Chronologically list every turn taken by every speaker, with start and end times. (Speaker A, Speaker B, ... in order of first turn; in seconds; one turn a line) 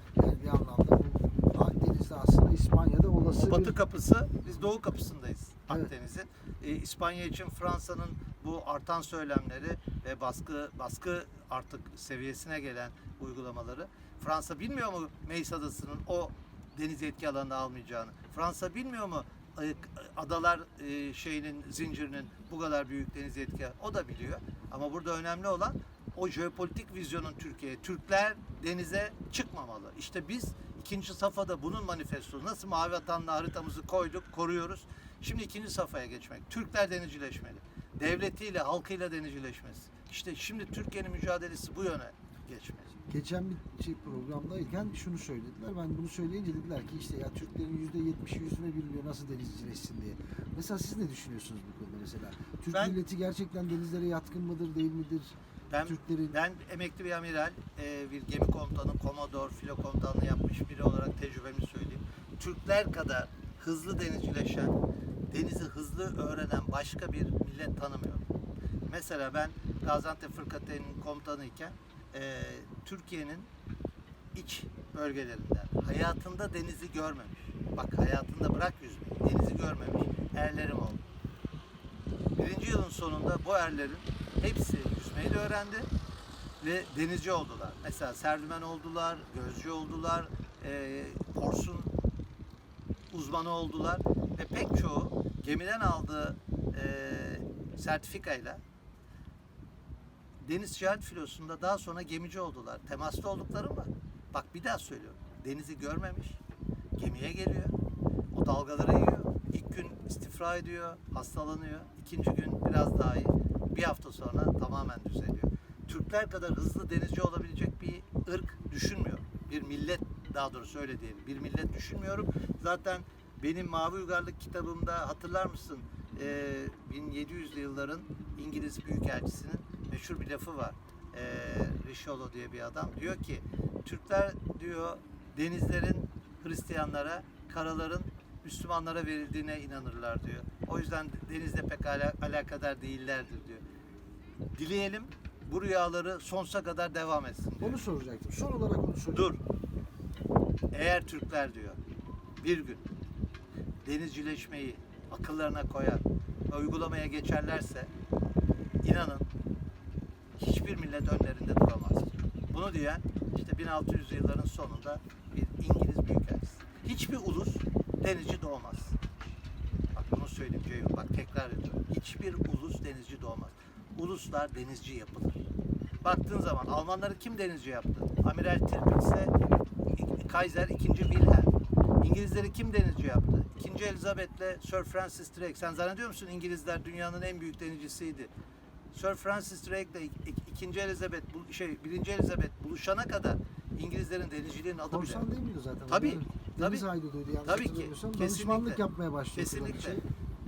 Speaker A: 0.1-3.7
Speaker B: 3.3-42.9
Speaker A: 43.1-56.3
Speaker B: 52.7-53.0
Speaker B: 55.7-64.8
Speaker B: 65.3-68.3
Speaker B: 68.9-73.5
Speaker B: 74.3-81.0
Speaker B: 82.3-85.9
Speaker B: 86.6-91.9
Speaker B: 93.1-98.6
Speaker B: 100.4-106.4
Speaker B: 107.0-107.8
Speaker B: 108.3-143.6
Speaker B: 144.5-147.8
Speaker A: 147.6-149.3
Speaker B: 149.1-149.4
Speaker B: 150.7-151.8
Speaker B: 152.4-152.9
Speaker B: 153.8-157.9
Speaker B: 158.8-159.3
Speaker B: 160.4-169.0
Speaker B: 169.9-175.5
Speaker B: 176.0-179.3
Speaker B: 179.9-188.3
Speaker B: 188.9-195.2
Speaker A: 194.9-200.0
Speaker B: 195.9-196.8
Speaker B: 197.4-198.8
Speaker B: 199.3-200.0